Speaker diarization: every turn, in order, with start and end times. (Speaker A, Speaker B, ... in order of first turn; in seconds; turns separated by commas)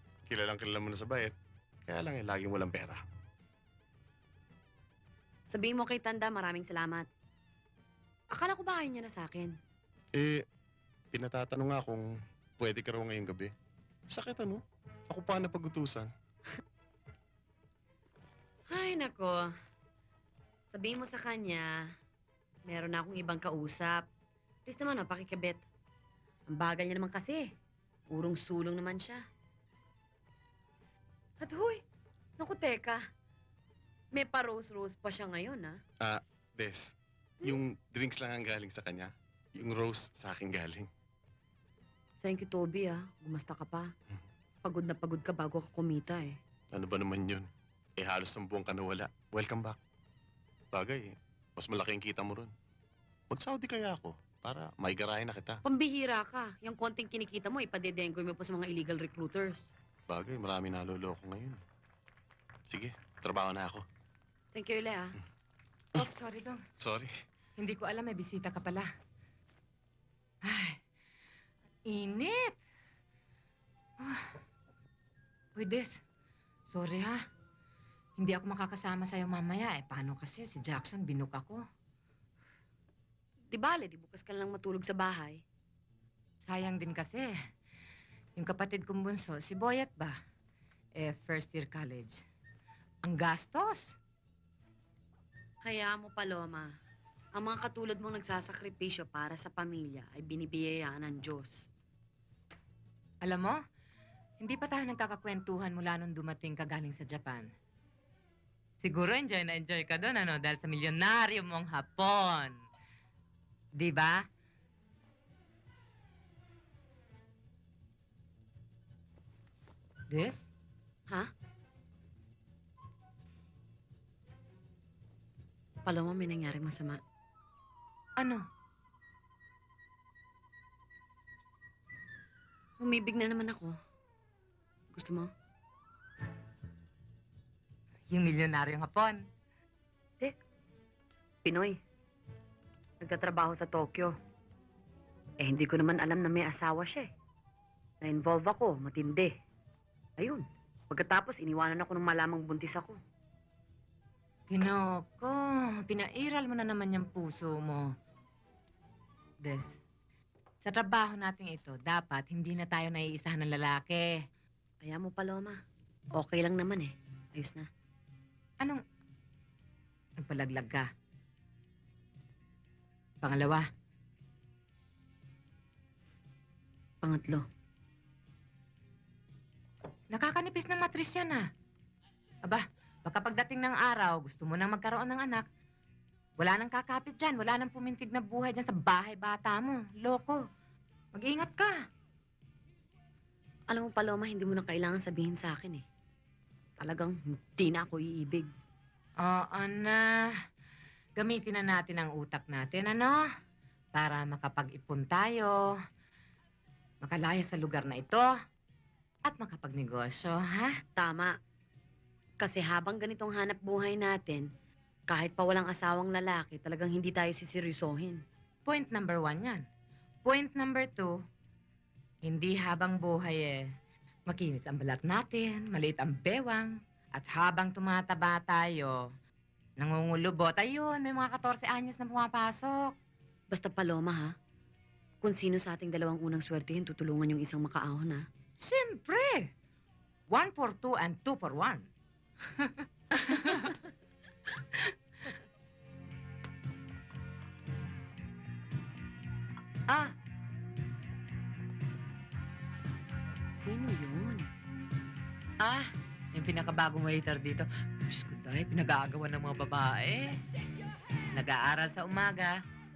Speaker A: 0.3-1.3, Speaker A: 1.9-3.0, Speaker B: 5.5-7.1, Speaker B: 8.3-9.6, Speaker A: 10.1-10.4, Speaker A: 11.1-12.1, Speaker A: 12.6-13.5, Speaker A: 14.1-16.1, Speaker B: 18.7-19.5, Speaker B: 20.7-21.9, Speaker B: 22.6-24.1, Speaker B: 24.6-25.6, Speaker B: 26.5-27.5, Speaker B: 28.1-29.2, Speaker B: 31.4-31.8, Speaker B: 32.4-33.0, Speaker B: 34.1-35.8, Speaker A: 36.0-40.9, Speaker B: 42.2-43.9, Speaker B: 44.6-46.4, Speaker A: 46.7-49.8, Speaker A: 50.7-52.5, Speaker A: 53.3-55.6, Speaker B: 55.6-59.7, Speaker A: 60.1-61.6, Speaker A: 62.7-63.8, Speaker B: 64.5-65.1, Speaker C: 65.9-66.6, Speaker A: 66.8-67.1, Speaker C: 67.6-68.9, Speaker C: 70.4-70.8, Speaker C: 71.8-72.6, Speaker C: 74.0-74.3, Speaker C: 75.5-76.0, Speaker C: 76.7-77.2, Speaker C: 78.2-81.6, Speaker B: 83.5-85.4, Speaker C: 86.5-87.3, Speaker C: 88.4-90.2, Speaker C: 91.0-92.2, Speaker C: 93.0-94.0, Speaker B: 95.6-96.7, Speaker B: 97.3-101.7, Speaker C: 103.2-103.6, Speaker C: 104.4-107.5, Speaker C: 108.8-112.7, Speaker C: 113.7-114.3, Speaker C: 120.1-120.5, Speaker B: 125.8-127.0, Speaker C: 128.2-128.4, Speaker B: 132.8-133.8, Speaker B: 134.9-135.3, Speaker C: 138.1-139.3, Speaker B: 141.4-141.8, Speaker B: 143.0-144.1, Speaker B: 145.4-147.1, Speaker B: 148.0-149.3, Speaker B: 150.2-153.0, Speaker C: 154.5-157.9, Speaker C: 159.4-159.8, Speaker C: 160.6-164.2, Speaker B: 164.8-165.6, Speaker B: 166.1-167.7, Speaker C: 170.2-170.9, Speaker C: 173.2-173.7, Speaker B: 177.0-177.4, Speaker C: 180.1-181.5, Speaker C: 182.4-185.5, Speaker C: 186.4-190.4, Speaker C: 191.1-191.8, Speaker B: 193.7-195.8, Speaker B: 196.8-198.5, Speaker C: 199.2-200.4, Speaker C: 201.2-203.2, Speaker C: 203.9-205.8, Speaker C: 207.0-208.3, Speaker C: 209.2-210.8, Speaker B: 210.9-211.3, Speaker B: 212.4-214.5, Speaker B: 215.1-218.2, Speaker C: 218.6-219.7, Speaker C: 220.2-221.2, Speaker C: 222.2-223.7, Speaker C: 224.3-229.0, Speaker C: 229.8-232.9, Speaker B: 233.5-234.3, Speaker B: 235.2-238.2, Speaker C: 238.6-239.5, Speaker C: 240.3-241.9, Speaker C: 243.2-243.7, Speaker C: 249.9-250.1, Speaker B: 253.6-254.5, Speaker C: 255.6-260.4, Speaker C: 261.3-262.6